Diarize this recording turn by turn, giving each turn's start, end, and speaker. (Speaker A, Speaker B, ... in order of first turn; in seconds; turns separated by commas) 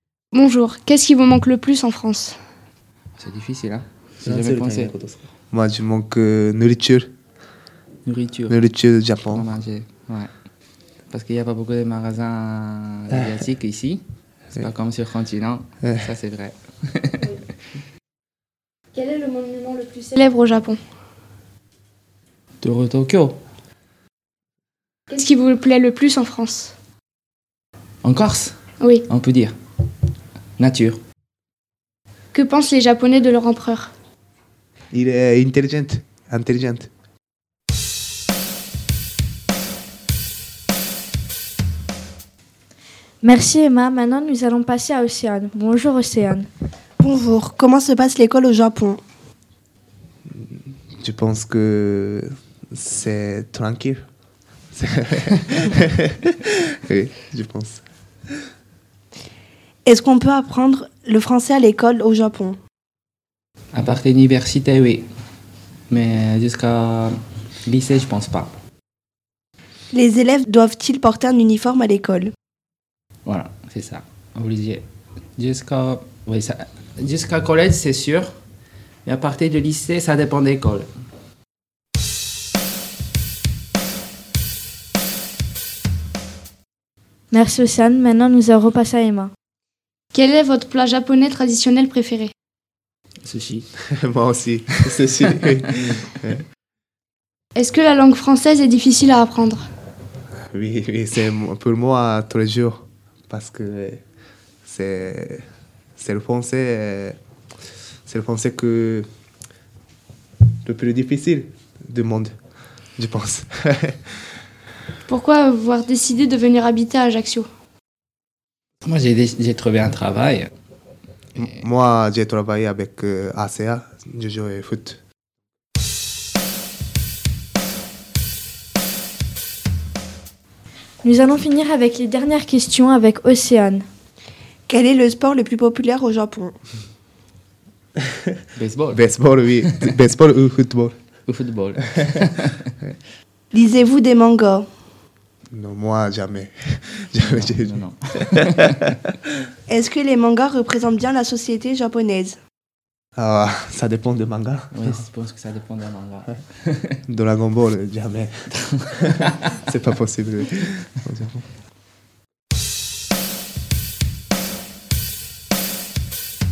Speaker A: 0.3-2.4, Speaker B: 3.2-4.9, Speaker C: 4.2-7.1, Speaker B: 8.0-8.6, Speaker C: 8.5-9.5, Speaker B: 9.3-10.3, Speaker B: 11.1-17.4, Speaker A: 18.9-20.8, Speaker B: 22.6-23.4, Speaker A: 25.1-26.7, Speaker B: 28.0-29.5, Speaker A: 28.8-29.1, Speaker B: 30.6-31.0, Speaker A: 32.3-33.9, Speaker C: 34.9-36.9, Speaker D: 43.2-46.5, Speaker E: 47.0-49.0, Speaker C: 51.0-54.0, Speaker C: 54.7-57.8, Speaker E: 59.9-62.6, Speaker B: 63.7-65.1, Speaker B: 65.9-67.1, Speaker B: 67.7-68.6, Speaker E: 69.9-72.3, Speaker B: 73.2-74.8, Speaker B: 75.4-78.3, Speaker B: 79.0-80.9, Speaker D: 87.3-89.3, Speaker A: 90.1-92.3, Speaker B: 93.2-93.7, Speaker C: 93.9-96.4, Speaker A: 97.5-99.6, Speaker C: 100.5-104.0, Speaker C: 104.6-105.4, Speaker C: 106.0-107.2, Speaker C: 108.1-109.0, Speaker C: 110.6-112.3, Speaker C: 113.0-114.0, Speaker A: 115.1-117.5, Speaker B: 118.8-120.5, Speaker C: 121.3-125.0, Speaker D: 131.0-133.8, Speaker E: 134.7-136.5, Speaker B: 138.5-139.0, Speaker C: 138.9-140.9, Speaker B: 141.3-142.7, Speaker E: 143.5-144.7, Speaker C: 145.5-147.8, Speaker B: 147.2-149.0, Speaker E: 149.7-152.4, Speaker C: 153.2-154.7, Speaker B: 154.7-157.0, Speaker C: 157.1-158.3, Speaker B: 158.7-159.3, Speaker C: 159.1-161.4